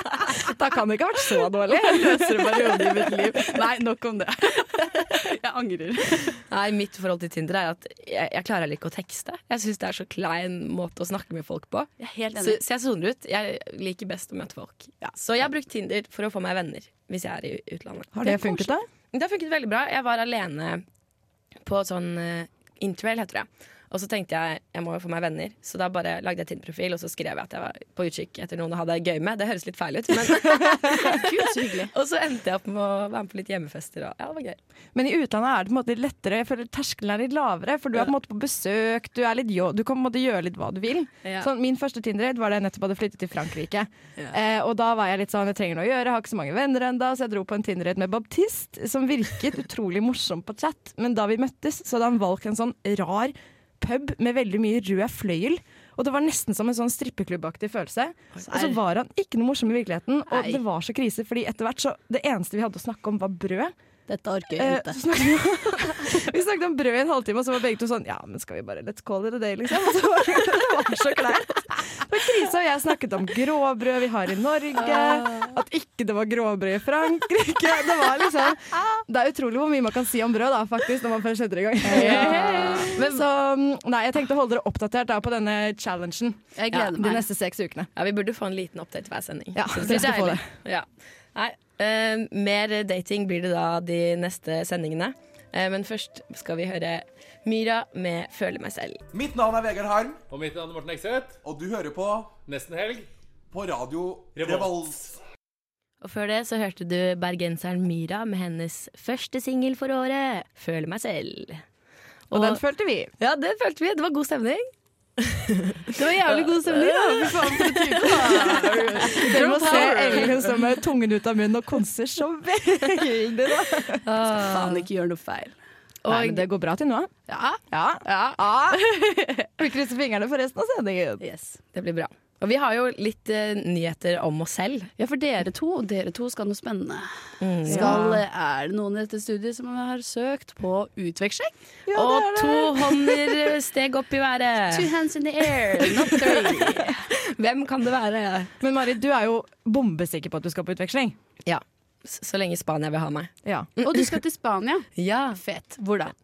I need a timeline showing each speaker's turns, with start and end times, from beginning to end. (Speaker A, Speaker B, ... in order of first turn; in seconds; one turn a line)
Speaker A: 0.3-3.6
Speaker B: 1.8-6.4
Speaker C: 6.5-20.8
Speaker B: 12.0-12.6
Speaker A: 18.1-18.8
Speaker C: 21.6-31.2
Speaker B: 30.9-31.9
Speaker C: 31.9-34.6
Speaker A: 34.9-63.7
Speaker B: 58.5-58.7
Speaker B: 64.1-65.0
Speaker A: 64.6-87.9
Speaker C: 81.9-83.2
Speaker B: 81.9-82.9
Speaker B: 86.5-87.2
Speaker C: 88.0-99.0
Speaker A: 89.5-90.5
Speaker D: 99.1-100.2
Speaker E: 100.3-101.4
Speaker D: 101.4-102.3
Speaker E: 102.4-103.1
Speaker D: 103.5-105.1
Speaker E: 104.3-104.9
Speaker C: 106.0-111.6
Speaker C: 112.3-112.6
Speaker A: 112.3-113.1
Speaker C: 113.2-114.7
Speaker C: 115.2-120.2
Speaker B: 116.0-120.5
Speaker A: 119.0-124.0
Speaker C: 124.0-124.8
Speaker B: 124.3-125.5
Speaker C: 126.0-126.4
Speaker A: 126.1-127.1
Speaker B: 127.3-129.4
Speaker A: 127.7-128.8
Speaker A: 129.6-131.2
Speaker B: 131.2-131.6
Speaker C: 131.7-134.9
Speaker B: 135.0-141.5
Speaker C: 137.4-138.2
Speaker A: 137.7-138.1
Speaker A: 141.9-143.4
Speaker C: 141.9-144.9
Speaker B: 144.7-147.0
Speaker C: 146.1-148.5
Speaker A: 148.6-151.2
Speaker C: 151.4-154.1
Speaker A: 153.4-153.7
Speaker B: 153.8-156.1
Speaker C: 155.0-155.4